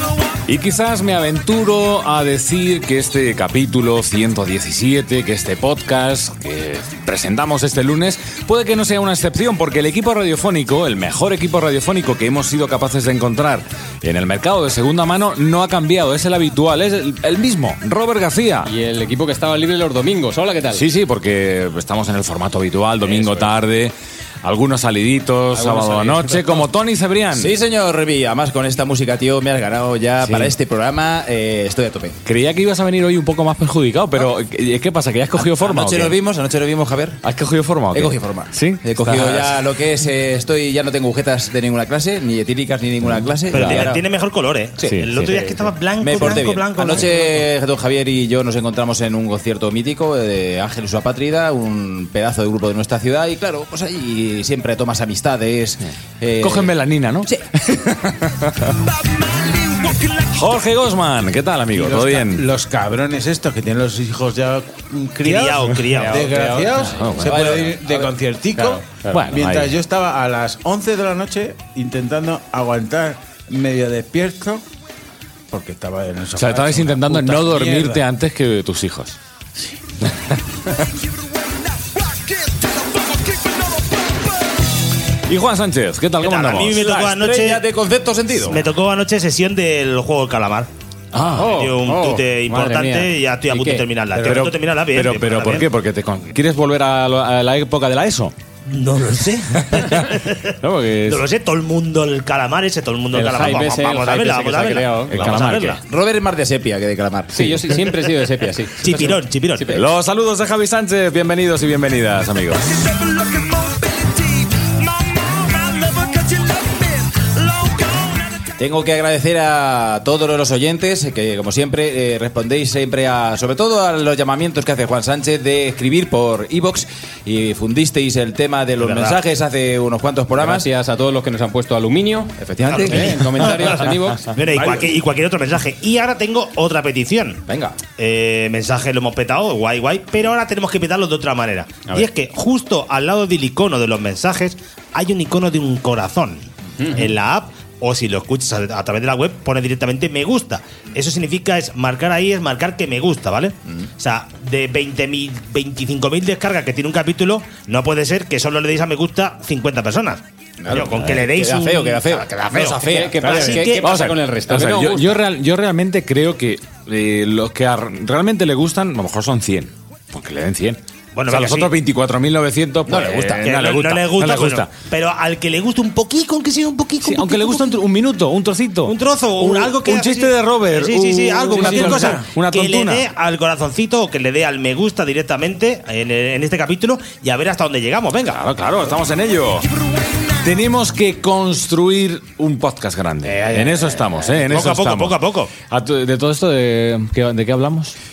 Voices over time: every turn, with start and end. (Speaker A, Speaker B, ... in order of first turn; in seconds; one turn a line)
Speaker A: 0.3-18.7
Speaker B: 18.6-20.9
Speaker A: 20.7-27.5
Speaker B: 23.1-23.5
Speaker B: 25.6-26.6
Speaker C: 27.3-32.2
Speaker A: 30.2-30.5
Speaker A: 32.3-36.1
Speaker C: 35.4-37.2
Speaker A: 37.2-39.6
Speaker C: 37.9-44.0
Speaker D: 43.5-47.3
Speaker A: 43.5-43.8
Speaker A: 44.8-45.6
Speaker C: 46.0-56.7
Speaker A: 56.4-58.8
Speaker A: 59.6-62.5
Speaker E: 61.7-74.6
Speaker D: 65.2-66.5
Speaker B: 65.9-67.2
Speaker A: 66.9-67.7
Speaker C: 67.2-68.1
Speaker B: 68.5-69.3
Speaker A: 69.1-69.8
Speaker E: 75.5-78.1
Speaker A: 76.4-79.2
Speaker E: 82.5-83.1
Speaker A: 85.3-86.8
Speaker D: 86.2-87.6
Speaker C: 86.8-88.7
Speaker D: 88.5-90.7
Speaker A: 91.1-91.5
Speaker B: 91.4-93.8
Speaker D: 91.5-95.7
Speaker A: 94.2-98.3
Speaker D: 98.7-105.8
Speaker A: 99.7-101.2
Speaker B: 103.1-105.8
Speaker C: 105.7-107.7
Speaker B: 107.3-109.9
Speaker D: 108.8-109.8
Speaker A: 109.7-113.0
Speaker C: 118.6-130.7
Speaker D: 128.8-129.2
Speaker B: 130.4-134.4
Speaker C: 132.4-133.9
Speaker D: 132.7-137.4
Speaker C: 137.5-137.8
Speaker D: 138.0-164.0
Speaker C: 160.6-163.6
Speaker B: 162.8-165.2
Speaker A: 163.8-174.7
Speaker D: 171.1-171.7
Speaker C: 172.9-173.4
Speaker D: 173.4-177.7
Speaker A: 177.0-183.0
Speaker D: 178.9-188.4
Speaker E: 181.6-182.3
Speaker A: 188.3-189.7
Speaker A: 190.4-197.9
Speaker D: 193.2-195.5